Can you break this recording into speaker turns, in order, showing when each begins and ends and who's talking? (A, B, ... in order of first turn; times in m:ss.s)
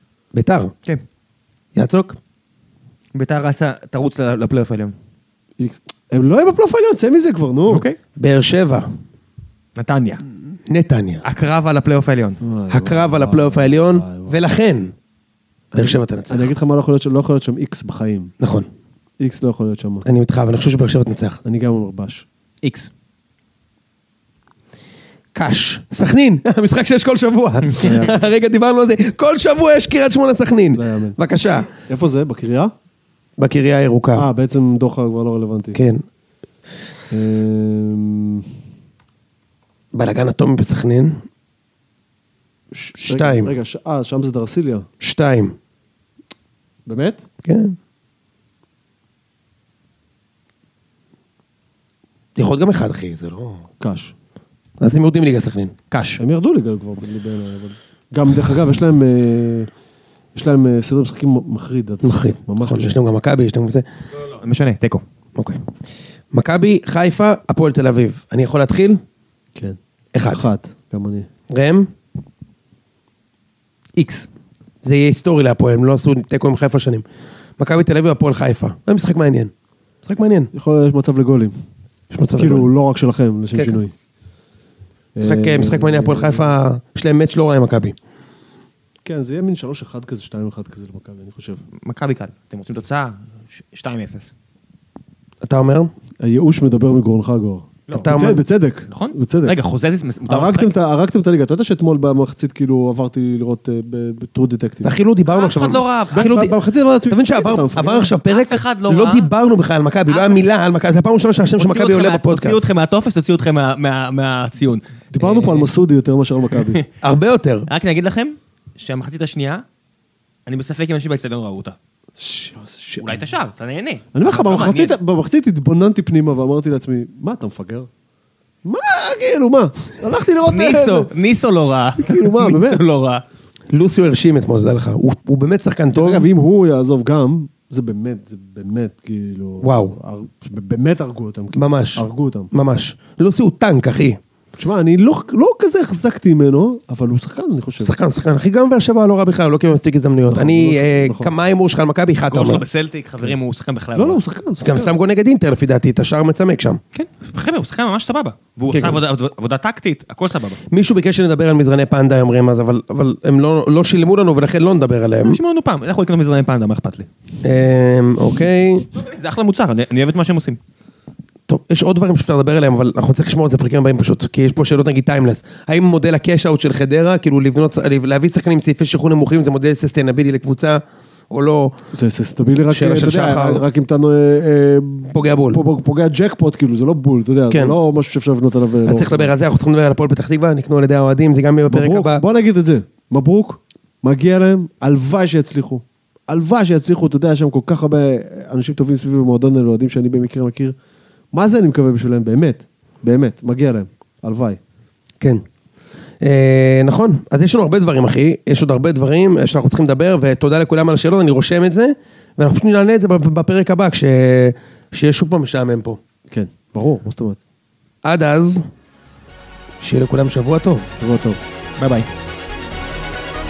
0:00.3-0:00.7 A
0:01.7-0:02.2 A
0:03.1-0:04.9 B
0:05.6-0:07.8 C
0:07.7-0:08.0 B
0:08.2-0:08.9 A
0:09.8-0:10.2 B
0:10.7-0:11.2 A
0:11.2-0:12.4 B
0:12.4-0:14.4 C
0:12.7-0:14.9 A
0:15.7-0:16.5 A
0:15.8-0:18.3 C
0:18.4-0:18.7 A
0:19.2-0:20.0 C
0:20.0-0:21.4 A
0:21.4-0:22.2 C
0:22.6-0:22.9 B
0:25.3-0:31.7 A
0:27.8-0:28.2 C
0:30.7-0:31.2 C
0:31.7-0:32.7 C
0:33.4-0:34.3 A
0:34.1-0:35.8 C
0:35.7-0:36.0 A
0:37.1-0:38.5 C
0:39.9-0:41.2 A
0:42.7-0:44.9 C
0:43.0-0:43.5 A
0:45.0-0:45.6 A
0:46.8-0:47.2 C
0:47.4-0:47.7 A
0:52.4-0:53.6 A
0:53.8-0:54.1 C
0:54.8-0:55.7 A
0:55.9-0:56.2 B
0:56.2-0:59.7 C
1:00.3-1:03.0 C
1:02.0-1:03.8 A
1:04.3-1:05.0 B
1:06.3-1:09.0 A
1:09.5-1:11.3 C
1:10.1-1:10.4 A
1:11.5-1:11.9 A
1:14.0-1:14.3 B
1:14.8-1:17.0 A
1:17.6-1:19.5 A
1:20.0-1:20.5 A
1:20.5-1:21.5 C
1:22.1-1:22.7 A
1:22.4-1:23.9 C
1:23.5-1:23.8 A
1:25.1-1:26.5 C
1:25.2-1:28.0 A
1:29.0-1:31.6 C
1:31.8-1:34.3 B
1:35.4-1:35.9 A
1:36.2-1:39.6 C
1:37.9-1:38.2 B
1:37.9-1:38.4 A
1:38.9-1:40.7 B
1:40.2-1:44.9 C
1:44.8-1:46.6 A
1:45.3-1:46.4 B
1:46.1-1:48.1 C
1:47.1-1:52.8 A
1:48.2-1:49.3 B
1:50.0-1:50.4 B
1:51.6-1:55.7 B
1:55.1-1:56.8 C
1:56.6-1:56.9 B
1:57.0-1:57.7 A
1:57.7-1:59.6 B
2:00.4-2:01.8 B
2:02.2-2:03.2 C
2:03.0-2:05.0 B
2:04.1-2:07.9 C
2:08.6-2:11.1 C
2:10.4-2:13.2 B
2:12.0-2:12.8 C
2:13.7-2:16.3 A
2:15.9-2:22.5 C
2:19.6-2:20.0 A
2:21.5-2:24.2 A
2:24.6-2:27.9 C
2:27.8-2:32.6 A
2:30.3-2:31.3 C
2:32.3-2:34.2 B
2:33.9-2:34.9 C
2:34.6-2:36.8 A
2:36.9-2:40.6 B
2:38.7-2:39.0 A
2:40.7-2:45.4 A
2:45.2-2:47.1 B
2:47.4-2:48.9 A
2:48.9-2:50.6 B
2:51.5-3:01.7 A
3:01.9-3:09.3 C
3:02.7-3:03.6 A
3:05.1-3:05.6 A
3:07.5-3:07.8 A
3:08.8-3:12.2 A
3:11.7-3:20.7 C
3:21.3-3:24.6 C
3:26.2-3:36.0 A
3:36.3-3:37.4 C
3:38.0-3:38.6 A
3:39.8-3:40.9 A
3:41.0-3:41.4 C
3:41.8-3:42.1 B